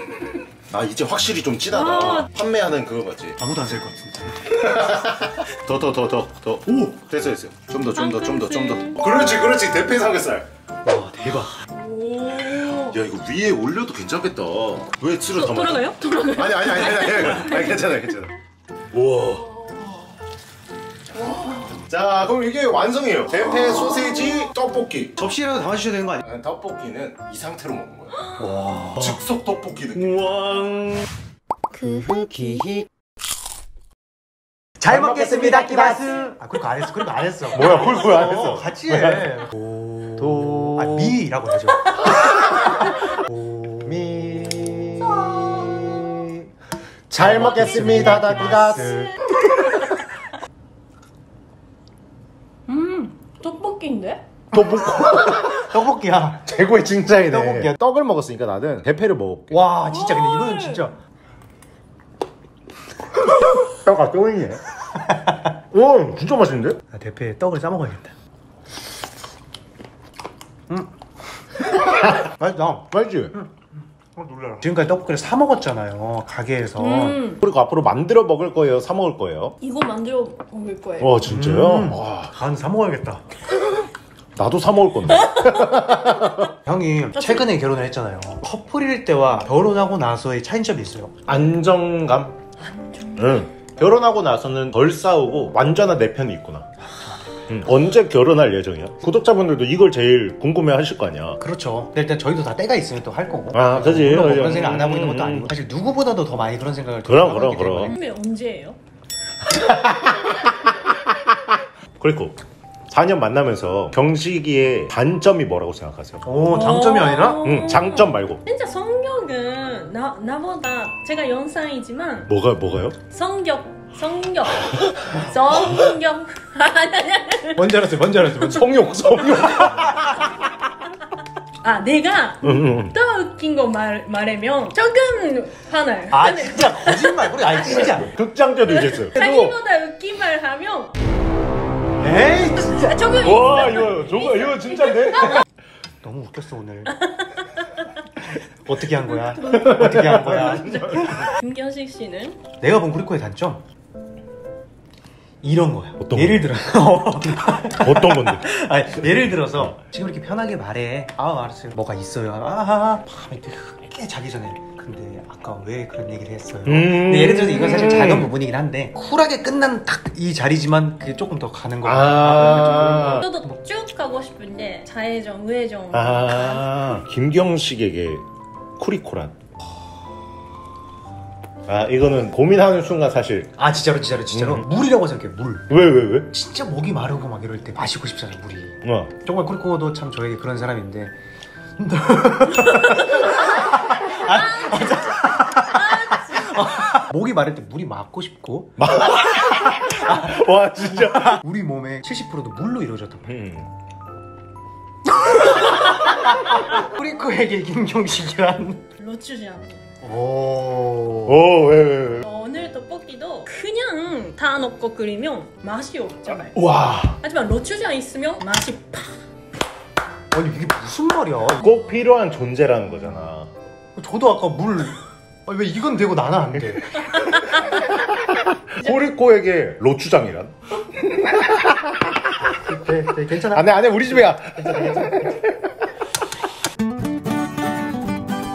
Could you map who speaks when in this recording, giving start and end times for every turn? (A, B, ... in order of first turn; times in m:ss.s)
0:00.7-0:03.4 A
0:01.7-0:02.3 B
0:03.4-0:04.6 C
0:04.5-0:10.5 A
0:06.7-0:07.0 C
0:08.0-0:09.0 B
0:10.8-0:11.6 C
0:11.7-0:13.0 B
0:12.7-0:18.4 A
0:15.3-0:17.7 B
0:18.9-0:19.5 A
0:19.4-0:20.0 B
0:21.1-0:21.8 B
0:21.7-0:25.2 A
0:25.2-0:26.2 C
0:26.2-0:28.2 A
0:28.4-0:29.2 C
0:29.0-0:30.3 A
0:30.0-0:31.1 C
0:31.8-0:32.6 C
0:34.8-0:42.0 C
0:34.8-0:36.2 A
0:37.5-0:39.3 A
0:40.2-0:41.2 A
0:42.7-0:44.0 C
0:43.8-0:46.4 A
0:45.2-0:45.9 B
0:47.1-0:49.1 A
0:47.2-0:49.1 C
0:48.7-0:49.1 B
0:52.7-0:54.2 B
0:54.5-0:55.6 A
0:55.6-0:56.5 C
0:56.4-0:59.6 A
0:57.3-0:57.8 C
0:59.5-1:01.0 C
0:59.8-1:00.9 B
1:03.3-1:04.6 A
1:05.1-1:05.4 C
1:05.7-1:06.8 A
1:06.9-1:08.1 C
1:12.0-1:13.3 A
1:12.2-1:13.5 C
1:14.2-1:17.3 C
1:16.8-1:17.4 B
1:17.4-1:19.6 A
1:19.6-1:21.2 B
1:21.0-1:22.4 A
1:21.3-1:23.2 C
1:24.4-1:26.5 A
1:25.2-1:25.7 B
1:26.6-1:31.1 C
1:27.2-1:27.5 B
1:31.3-1:32.4 A
1:32.6-1:33.4 B
1:33.2-1:36.7 A
1:37.5-1:41.4 A
1:41.4-1:48.0 C
1:43.5-1:45.5 A
1:47.0-1:47.9 A
1:47.9-1:48.8 B
1:49.6-1:51.0 A
1:52.0-1:52.4 A
1:52.9-1:56.3 A
1:56.2-1:57.5 C
1:56.5-2:02.3 B
1:57.4-1:58.4 A
2:02.3-2:03.0 A
2:03.1-2:07.6 B
2:07.6-2:09.8 C
2:08.4-2:10.2 A
2:11.6-2:17.3 B
2:12.4-2:13.0 A
2:16.1-2:18.1 C
2:17.6-2:19.3 A
2:18.7-2:21.0 B
2:22.0-2:22.9 C
2:22.5-2:25.4 B
2:23.2-2:25.4 A
2:26.0-2:27.0 C
2:27.4-2:27.7 B
2:28.6-2:30.8 C
2:29.1-2:32.4 B
2:29.5-2:31.3 A
2:32.6-2:33.6 C
2:35.4-2:53.6 C
2:36.0-2:36.5 A
2:37.8-2:38.4 A
2:46.7-2:48.3 A
2:51.8-2:53.3 A
2:52.4-2:56.7 B
2:55.9-2:58.2 A
2:58.8-2:59.3 A
3:01.7-3:03.6 A
3:03.6-3:05.8 C
3:04.3-3:04.7 A
3:05.7-3:06.3 A
3:06.3-3:11.2 C
3:08.8-3:09.1 A
3:11.8-3:18.8 C
3:14.6-3:16.7 B
3:18.8-3:21.4 A
3:21.0-3:23.3 C
3:23.3-3:23.7 A
3:25.4-3:28.8 C
3:29.0-3:29.8 B
3:30.0-3:31.4 C
3:31.3-3:32.3 A
3:32.2-3:36.6 B
3:36.6-3:37.2 A
3:37.2-3:39.1 B
3:40.3-3:41.7 C
3:41.6-3:43.5 A
3:44.0-3:47.0 C
3:48.7-3:52.2 A
3:52.5-3:55.3 C
3:53.5-3:55.5 A